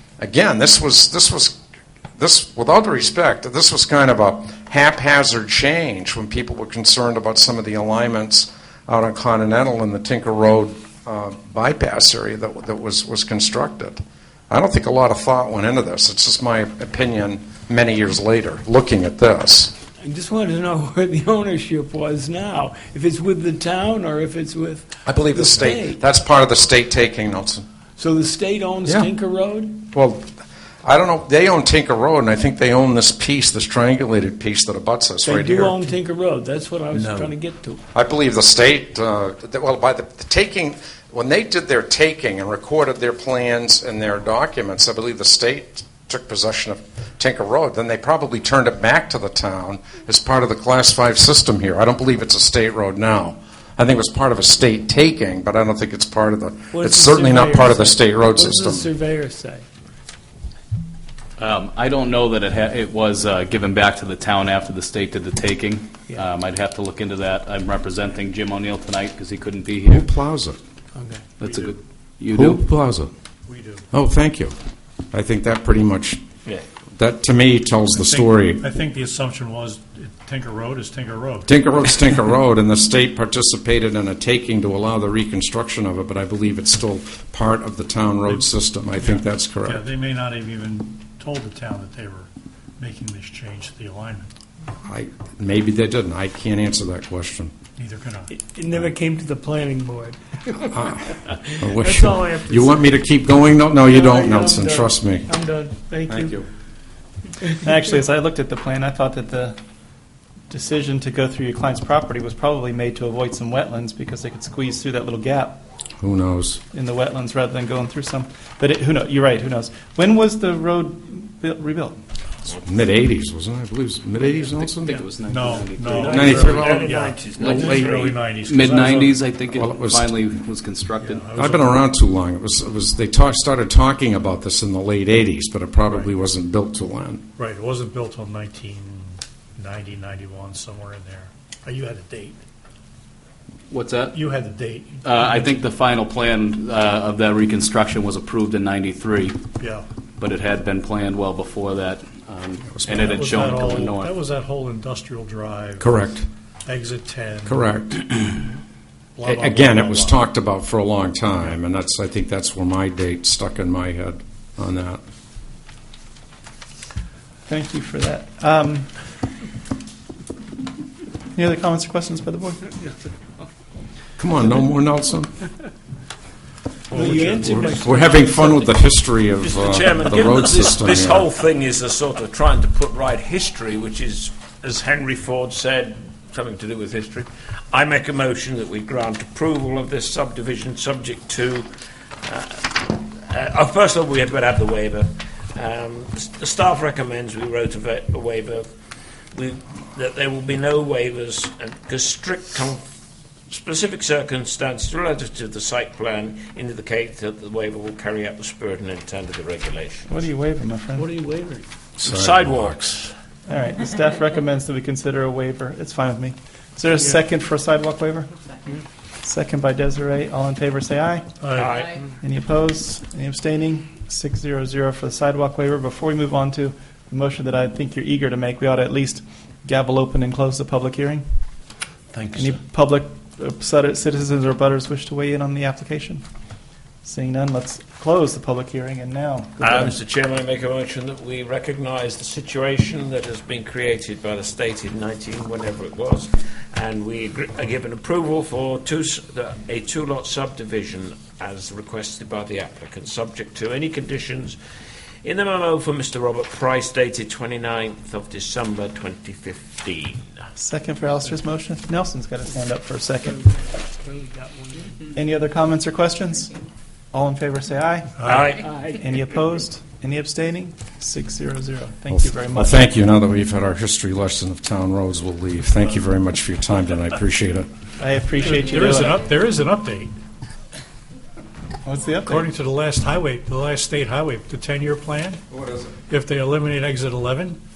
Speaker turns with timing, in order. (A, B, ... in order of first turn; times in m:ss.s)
0:00.2-0:01.6 A
0:02.2-0:19.7 A
0:20.0-0:26.0 B
0:25.0-0:27.6 A
0:28.0-0:29.8 B
0:29.8-0:30.3 A
0:30.8-0:35.9 A
0:35.2-0:37.8 B
0:36.9-0:37.3 A
0:37.9-0:58.9 A
0:56.7-0:59.6 B
1:01.4-1:10.1 C
1:09.9-1:10.6 A
1:10.9-1:11.3 B
1:11.4-1:12.7 C
1:12.3-1:13.1 A
1:13.5-1:13.8 D
1:13.9-1:14.6 A
1:15.1-1:16.2 A
1:17.0-1:18.6 A
1:17.9-1:21.5 D
1:21.4-1:29.8 A
1:28.3-1:34.3 D
1:34.8-1:37.5 A
1:37.8-1:38.3 D
1:38.3-1:40.8 B
1:40.7-1:45.3 A
1:41.3-1:42.9 B
1:43.8-1:46.3 B
1:46.1-1:46.4 A
1:47.6-1:49.5 E
1:50.5-1:55.6 E
1:56.0-1:56.6 A
1:56.7-2:02.0 E
2:02.5-2:05.0 A
2:04.4-2:06.8 C
2:05.2-2:09.2 D
2:06.0-2:08.0 A
2:06.1-2:08.2 F
2:08.5-2:11.2 C
2:09.5-2:10.1 A
2:11.0-2:11.8 D
2:11.3-2:17.2 A
2:15.8-2:16.1 D
2:17.4-2:22.4 D
2:23.7-2:24.2 C
2:24.1-2:25.6 D
2:25.0-2:29.4 C
2:29.6-2:29.8 D
2:30.2-2:34.1 C
2:32.8-2:33.2 A
2:32.8-2:35.9 D
2:35.8-2:36.3 A
2:36.6-2:37.7 D
2:37.4-2:38.0 A
2:39.2-2:40.2 D
2:39.3-2:45.0 A
2:47.5-2:48.9 E
2:51.3-2:52.8 E
2:54.2-2:55.3 A
2:56.9-2:58.7 B
2:56.9-2:57.4 E
2:57.0-3:01.3 A
2:57.1-2:57.5 D
2:59.4-3:11.7 F
3:12.2-3:18.7 F
3:19.3-3:22.8 F
3:23.5-3:30.2 F
3:30.1-3:31.1 E
3:31.0-3:31.6 B
3:32.0-3:33.1 F
3:32.0-3:32.6 A
3:33.5-3:38.3 E
3:39.2-3:41.3 E
3:41.4-3:41.8 D
3:41.5-3:42.0 F
3:42.2-3:51.2 E
3:52.1-3:52.4 F
3:52.3-3:56.2 E
3:57.0-4:00.0 E
3:59.6-4:14.6 F
4:15.2-4:20.3 F
4:20.6-4:23.4 E
4:23.3-4:24.9 B
4:25.1-4:26.5 E
4:27.1-4:32.9 E
4:28.2-4:28.5 D
4:28.2-4:28.7 F
4:28.6-4:28.9 B
4:32.1-4:37.7 A
4:38.0-4:39.2 E
4:38.4-4:40.1 D
4:41.8-4:42.5 E
4:42.2-4:45.4 D
4:45.5-4:45.9 A
4:46.1-4:47.6 D